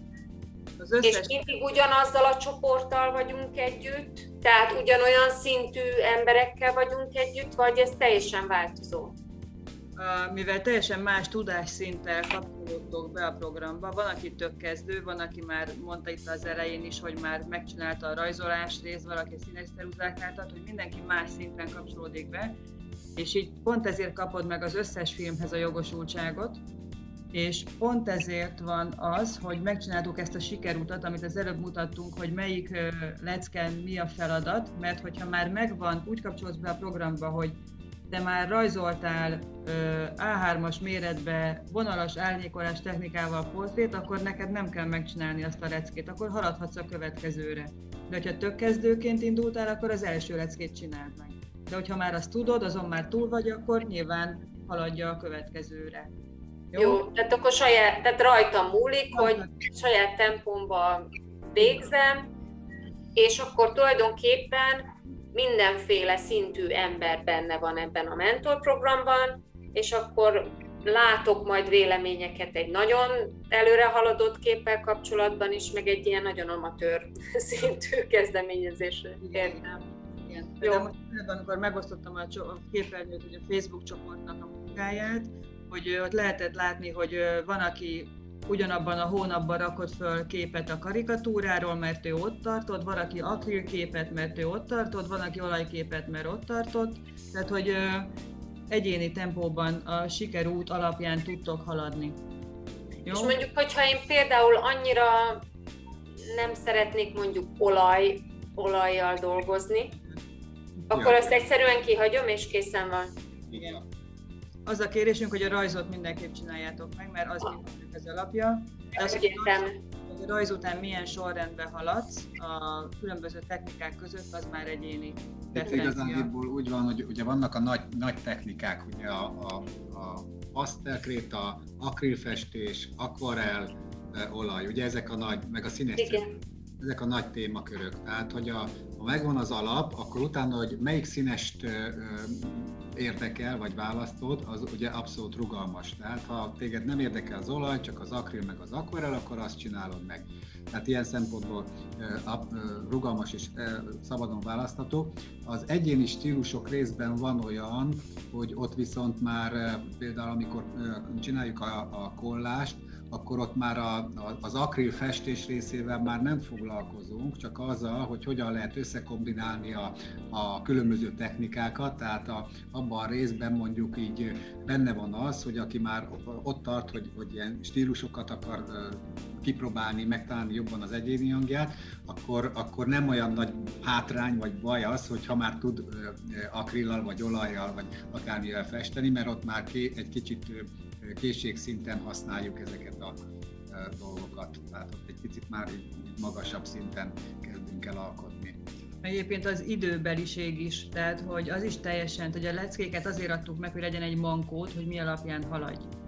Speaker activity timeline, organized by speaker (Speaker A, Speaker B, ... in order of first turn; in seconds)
Speaker A: 0.8-1.5, 10.0-22.6, 23.2-26.6, 27.3-56.1, 56.7-57.0, 59.1-59.5, 79.2-98.1, 98.7-102.2, 103.1-103.4, 113.5-113.8, 114.7-126.3, 199.0-205.9
Speaker B: 1.0-9.2, 56.8-62.3, 63.1-79.8, 103.1-105.4, 106.3-109.9, 110.9-113.1, 119.0-119.7, 136.0-136.3
Speaker C: 110.9-111.3, 113.5-113.8, 125.5-136.3, 136.8-198.6